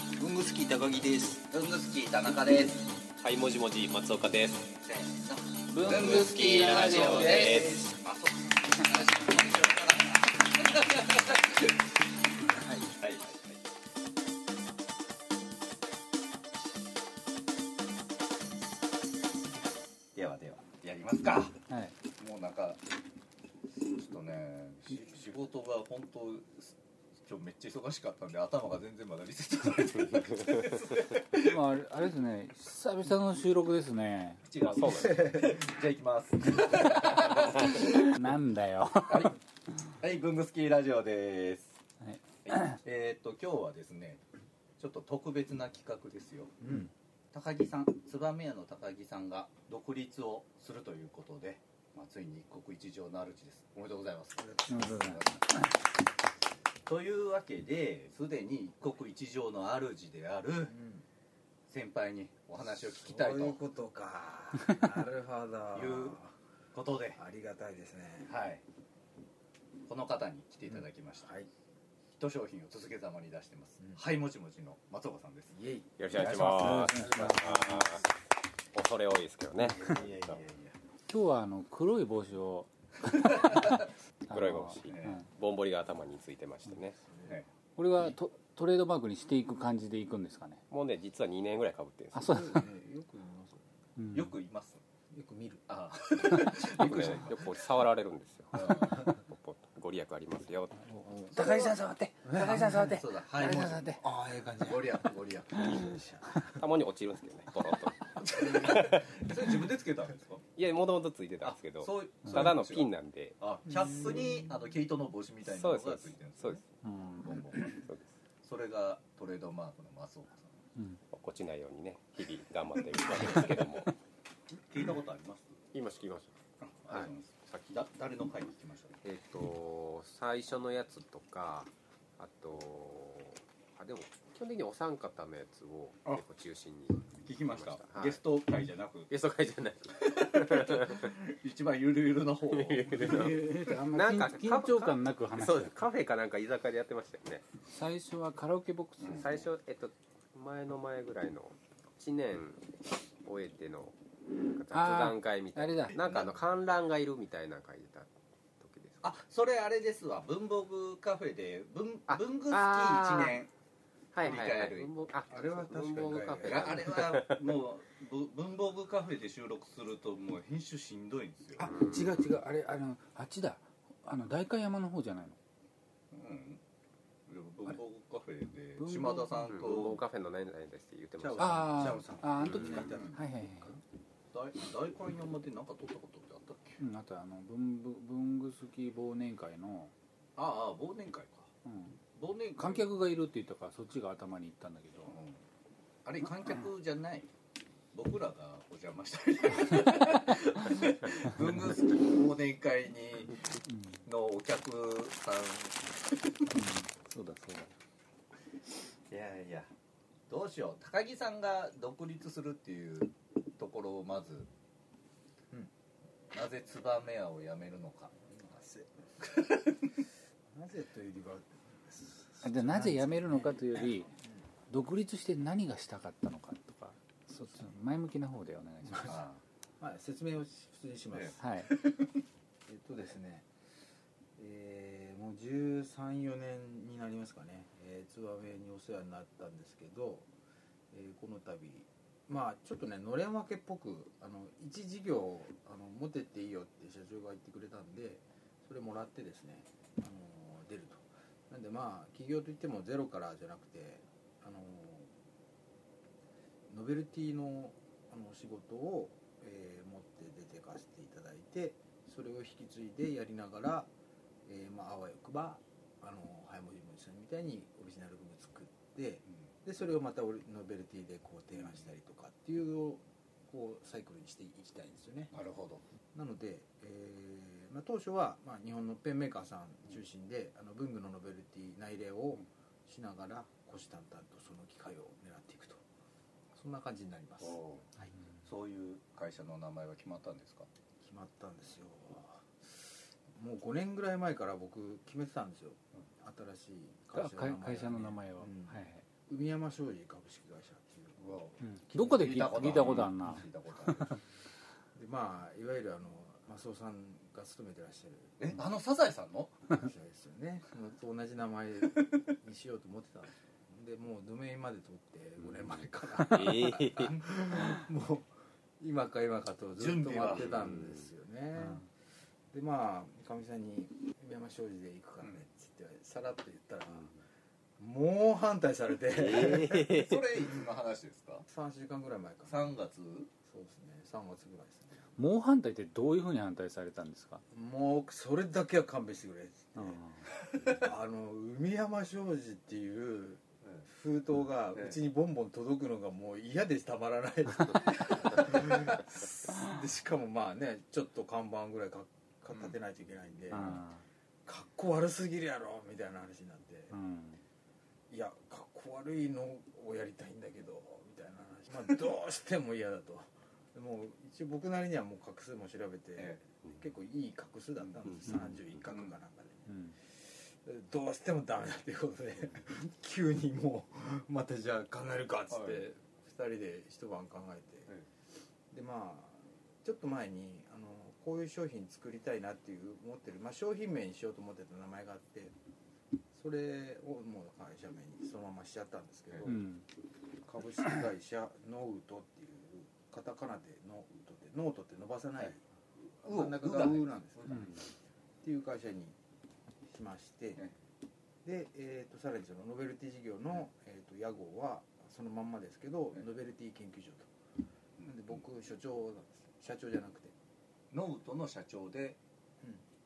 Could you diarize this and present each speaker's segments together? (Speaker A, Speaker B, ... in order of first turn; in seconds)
Speaker A: 1.3-2.8, 4.9-11.4, 13.0-13.6, 20.2-21.6, 22.2-22.8, 23.8-31.5, 34.5-38.1, 39.1-39.4, 39.9-41.8, 42.5-44.2, 44.8-46.5, 47.3-55.4, 56.9-60.7, 61.7-63.6, 65.7-66.2, 66.7-67.2, 68.3-68.6, 69.9-71.3, 72.1-75.6, 76.1-77.4, 79.7-80.8, 84.9-85.2, 94.1-94.8, 95.7-97.6, 98.5-99.1, 102.3-104.0, 104.6-106.0, 108.2-110.4, 111.4-116.6, 117.2-117.8, 118.4-120.6, 124.5-125.6, 126.6-129.0, 137.2-139.1, 140.1-143.7, 155.9-156.4, 159.0-163.5, 164.2-164.9, 166.0-171.7, 176.1-176.6, 177.3-180.0, 184.3-186.8, 190.4-191.5, 192.2-192.9, 195.1-195.4, 196.1-197.3, 197.9-203.4, 204.1-205.9, 209.1-209.7, 210.3-214.5, 216.3-218.1, 229.1-229.4, 271.6-271.9, 275.3-275.8, 287.4-287.9, 288.4-290.7, 301.2-304.2, 308.4-309.5, 319.8-320.5, 329.8-331.5, 332.5-333.3, 366.2-366.4, 367.8-369.1, 375.5-375.8, 396.2-397.9, 410.9-412.2
Speaker B: 3.2-4.8, 6.6-7.8, 30.1-31.0, 34.6-35.3, 37.5-37.9, 76.0-78.0, 78.7-80.4, 84.3-87.0, 90.7-92.4, 96.5-100.8, 105.7-106.0, 106.5-109.3, 110.5-113.4, 115.4-116.7, 117.7-118.1, 121.1-123.9, 125.7-126.4, 129.0-138.2, 139.1-141.1, 142.5-147.4, 149.1-152.6, 153.2-158.1, 158.6-159.2, 162.1-163.4, 164.1-167.6, 171.6-172.1, 179.3-182.8, 316.3-317.7, 320.3-321.1, 329.1-330.3
Speaker C: 5.7-7.6, 12.6-12.9, 21.7-22.0, 31.4-34.4, 36.9-39.4, 42.0-42.8, 54.7-55.7, 76.3-77.9, 81.1-85.2, 87.8-90.6, 92.1-92.7, 94.0-94.3, 101.3-104.0, 116.8-117.4, 120.8-121.0, 143.1-145.7, 147.7-149.5, 154.7-156.0, 171.6-175.4, 178.8-179.6, 181.4-183.8, 186.8-189.9, 191.7-192.0, 192.6-195.2, 203.7-204.0, 206.5-207.7, 222.4-224.1, 224.7-229.2, 231.4-231.7, 297.1-299.0, 301.6-303.5, 335.2-337.4, 339.8-340.1, 353.5-354.1, 356.9-357.4, 369.7-370.0, 389.4-389.9
Speaker D: 34.9-35.6, 46.6-46.9, 54.4-55.2, 60.6-61.0, 62.6-66.3, 67.2-68.3, 70.7-71.5, 73.8-74.1, 75.5-75.9, 87.1-87.4, 92.2-93.8, 95.1-96.5, 100.8-101.7, 102.4-106.6, 108.4-108.8, 165.3-166.9, 181.2-183.8, 218.2-219.4, 220.5-224.3, 228.8-229.2, 229.8-231.8, 232.7-233.5, 234.4-240.3, 240.9-255.1, 256.7-263.9, 264.5-275.3, 276.1-285.8, 286.5-287.6, 291.0-292.5, 293.4-301.6, 302.6-303.1, 304.9-308.6, 309.7-321.9, 322.5-327.1, 327.8-329.9, 331.5-332.8, 333.5-335.1, 337.5-353.9, 354.5-357.0, 358.1-377.9, 378.7-385.5, 386.3-389.6, 390.4-395.6, 396.2-397.9, 398.4-399.2, 399.9-400.6, 401.4-407.3, 408.0-410.3